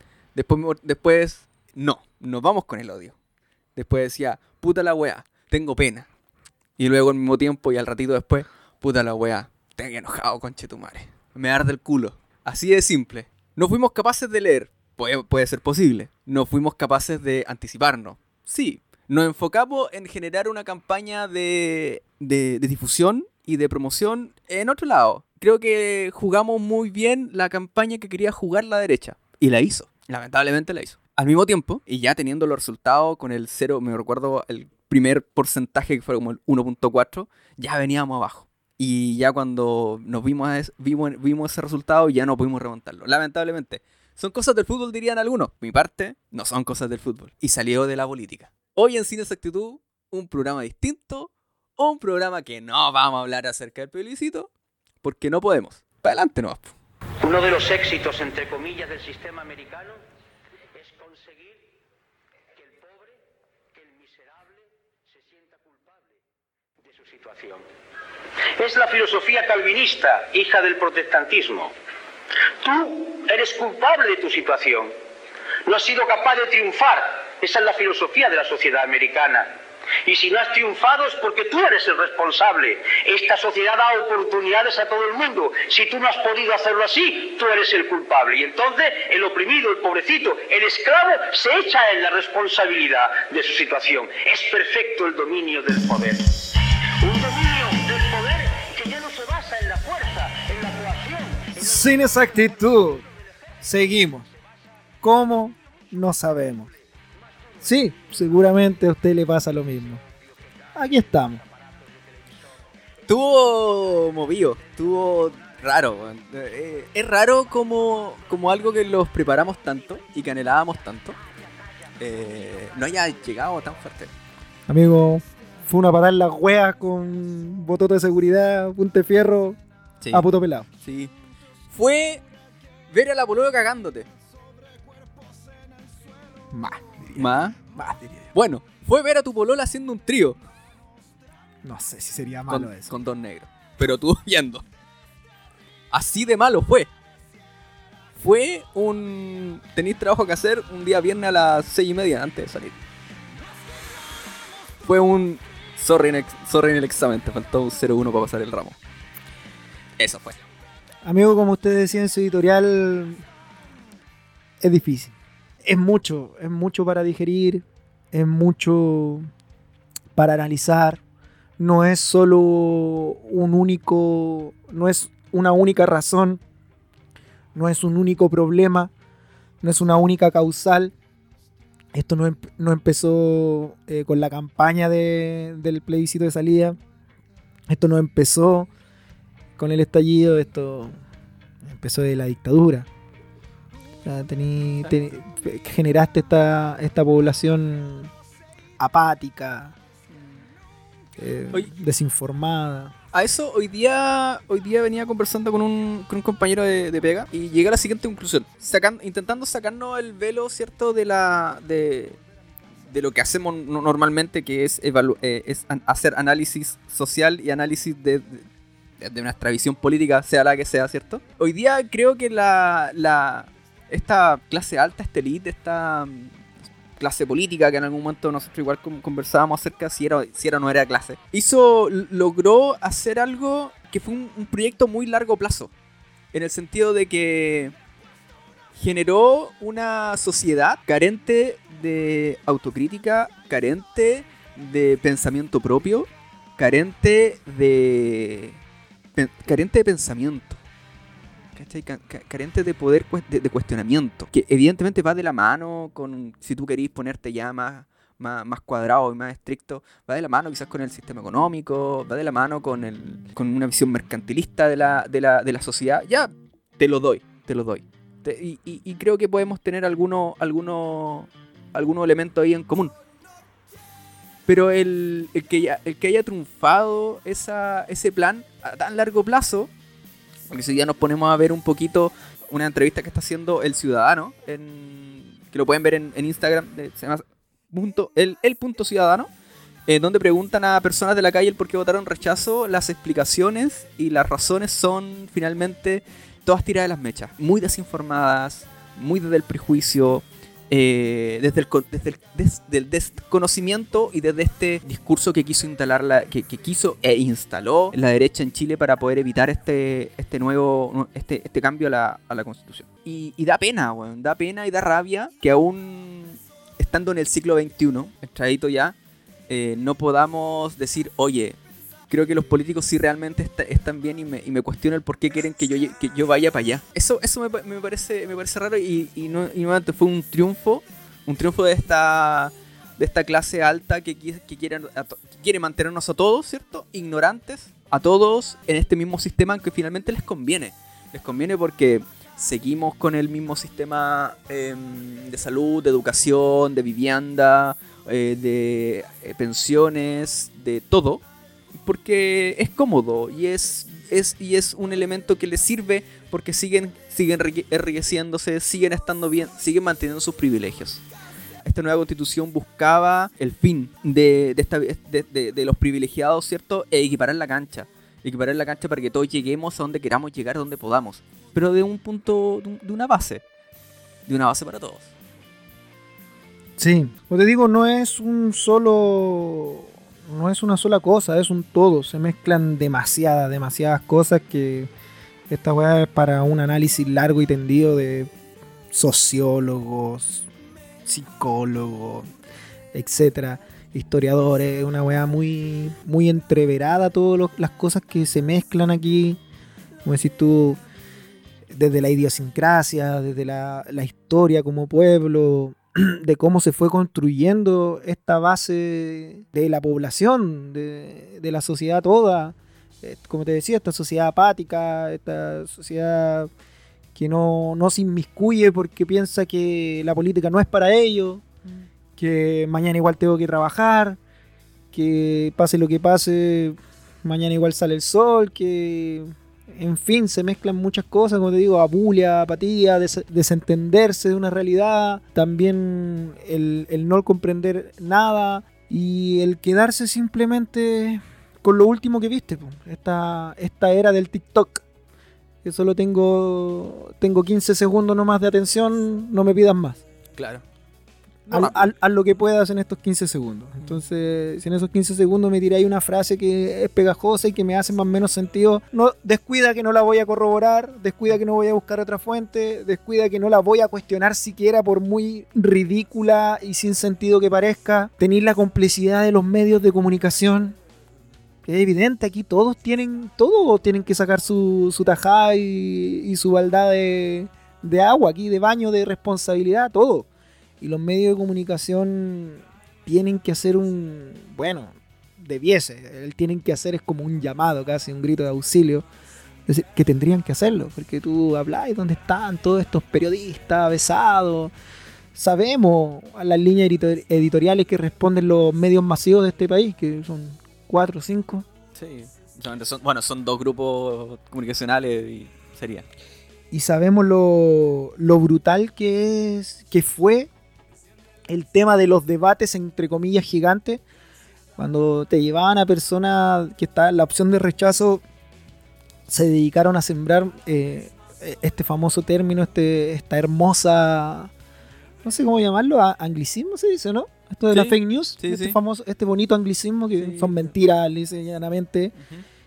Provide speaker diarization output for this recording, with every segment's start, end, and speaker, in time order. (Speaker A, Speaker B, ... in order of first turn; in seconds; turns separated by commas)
Speaker A: 0.3-3.1, Speaker A: 3.8-6.1, Speaker A: 6.8-54.5, Speaker A: 55.0-56.7, Speaker B: 57.2-60.0, Speaker B: 60.8-61.6, Speaker B: 62.6-63.2, Speaker B: 63.7-66.1, Speaker B: 66.8-67.7, Speaker B: 68.6-71.7, Speaker B: 72.6-74.9, Speaker B: 75.7-79.5, Speaker B: 80.0-102.1, Speaker C: 101.6-103.0, Speaker C: 103.6-104.3, Speaker C: 105.0-106.7, Speaker C: 107.6-110.0, Speaker C: 110.8-111.4, Speaker A: 113.1-121.2, Speaker A: 122.0-124.1, Speaker C: 124.7-129.6, Speaker A: 130.0-130.3, Speaker C: 130.1-130.7, Speaker A: 130.8-131.1, Speaker A: 131.7-132.2, Speaker A: 132.9-134.1, Speaker C: 136.5-138.3, Speaker A: 137.2-137.6, Speaker A: 138.3-140.4, Speaker C: 141.6-142.9, Speaker A: 142.5-144.7, Speaker A: 145.9-146.9, Speaker A: 148.2-152.8, Speaker A: 154.8-158.8, Speaker A: 160.0-160.4, Speaker C: 161.0-163.2, Speaker C: 164.6-169.3, Speaker C: 170.2-171.0, Speaker C: 171.6-176.4, Speaker C: 177.6-178.9, Speaker C: 179.6-180.9, Speaker C: 181.9-186.8, Speaker C: 187.7-188.7, Speaker C: 189.6-190.9, Speaker C: 191.6-192.9, Speaker C: 194.0-198.1, Speaker C: 198.8-199.8, Speaker C: 201.2-202.9, Speaker A: 203.1-212.2, Speaker A: 212.9-218.5, Speaker A: 219.0-226.4, Speaker A: 227.0-235.7, Speaker A: 236.3-237.8, Speaker A: 238.8-248.6, Speaker A: 249.2-250.6, Speaker A: 251.6-272.9, Speaker A: 274.5-279.7, Speaker A: 280.5-289.3, Speaker A: 289.9-319.0, Speaker A: 319.5-321.6, Speaker A: 322.1-351.2, Speaker A: 351.8-361.0, Speaker A: 361.6-373.4, Speaker A: 374.3-375.1, Speaker C: 376.8-384.9, Speaker C: 385.5-388.3, Speaker C: 388.9-390.5, Speaker C: 391.1-392.3, Speaker C: 392.9-399.4, Speaker C: 400.1-400.8, Speaker C: 401.7-416.5, Speaker C: 417.1-421.4, Speaker C: 422.2-424.2, Speaker C: 424.9-444.8, Speaker C: 445.6-450.0, Speaker A: 450.4-450.6, Speaker A: 451.5-451.9, Speaker C: 451.5-470.8, Speaker C: 471.6-480.3, Speaker C: 480.8-489.1, Speaker C: 489.7-494.7, Speaker C: 495.4-501.7, Speaker A: 501.9-506.1, Speaker C: 506.7-510.5, Speaker C: 511.5-514.0, Speaker C: 514.8-518.2, Speaker C: 519.3-524.5, Speaker C: 525.2-532.1, Speaker A: 527.7-528.8, Speaker A: 530.2-530.7